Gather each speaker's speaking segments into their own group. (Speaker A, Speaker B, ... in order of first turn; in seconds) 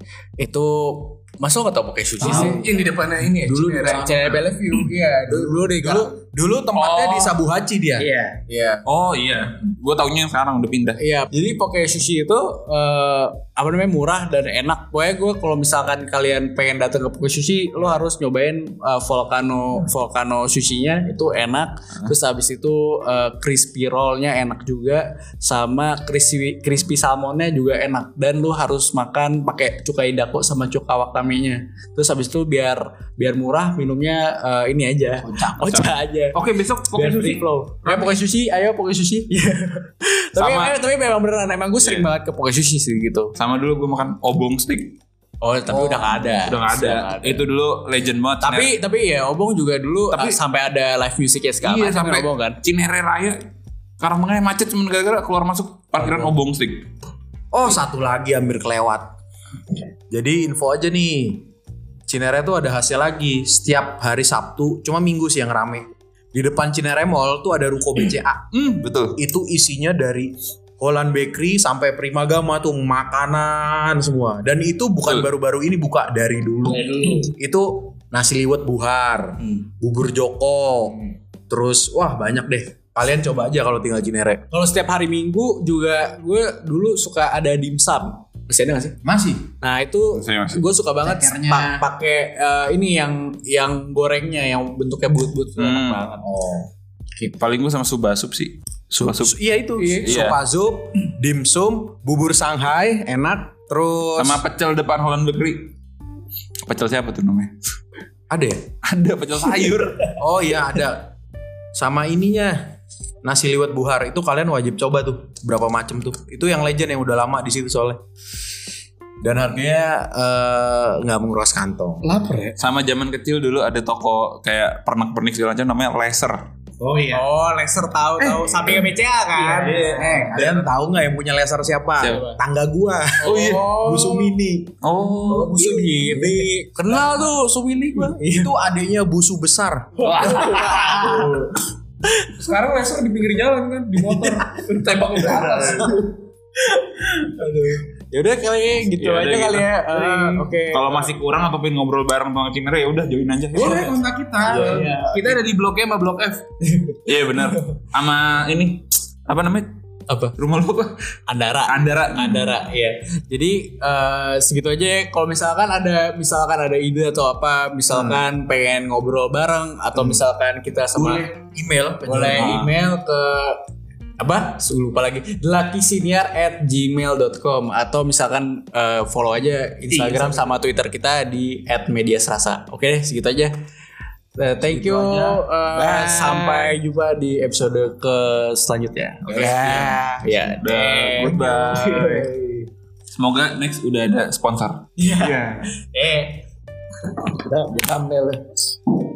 Speaker A: 0.4-2.6, 3.8-6.1, 8.0-8.8, 11.0-36.4, 36.9-43.4, 45.4-47.4, 48.4-52.6, 84.5-89.0, 89.6-96.2, 127.1-130.3, 133.2-134.3, 135.3-138.5, 140.1-142.5, 147.2-151.1, 154.5-155.1, 160.1-160.3, 161.3-171.3, 172.1-173.6, 174.2-183.5, 184.4-192.6, 195.0-196.4
Speaker B: 2.2-2.7, 3.4-4.5, 5.3-8.1, 45.7-46.1, 57.5-59.1, 60.1-61.5, 62.1-68.5, 69.2-81.0, 81.5-84.4, 89.0-89.5, 91.0-91.8, 96.2-96.7, 98.9-104.4, 108.3-108.7, 110.2-111.1, 111.7-118.0, 119.2-122.1, 128.2-128.8, 130.0-134.7, 135.8-137.1, 138.2-140.0, 154.4-155.1, 167.9-168.2, 170.9-172.6, 179.9-180.5, 184.6-186.1, 189.2-190.1
Speaker C: 2.2-5.0, 122.0-122.6, 126.8-127.2, 129.3-130.4, 135.6-136.2, 140.1-141.3, 142.3-146.2, 150.1-150.5, 153.5-156.5, 197.5-198.3
Speaker D: 6.7-7.3, 8.8-11.0, 35.5-38.2, 40.4-40.8, 41.8-42.1, 43.4-45.0, 46.3-48.7, 50.1-50.4, 51.6-53.4, 54.0-56.9, 68.5-69.2, 90.1-90.6, 95.6-96.0, 97.3-99.4, 100.0-100.4, 104.2-105.7, 106.6-107.5, 108.8-110.2, 122.6-126.4, 129.6-130.7, 133.2-133.8, 134.8-135.7, 140.0-141.2, 148.9-150.1, 150.7-154.0, 157.1-159.8, 160.3-160.9, 161.7-162.7, 172.3-172.7, 190.6-192.3, 193.2-195.7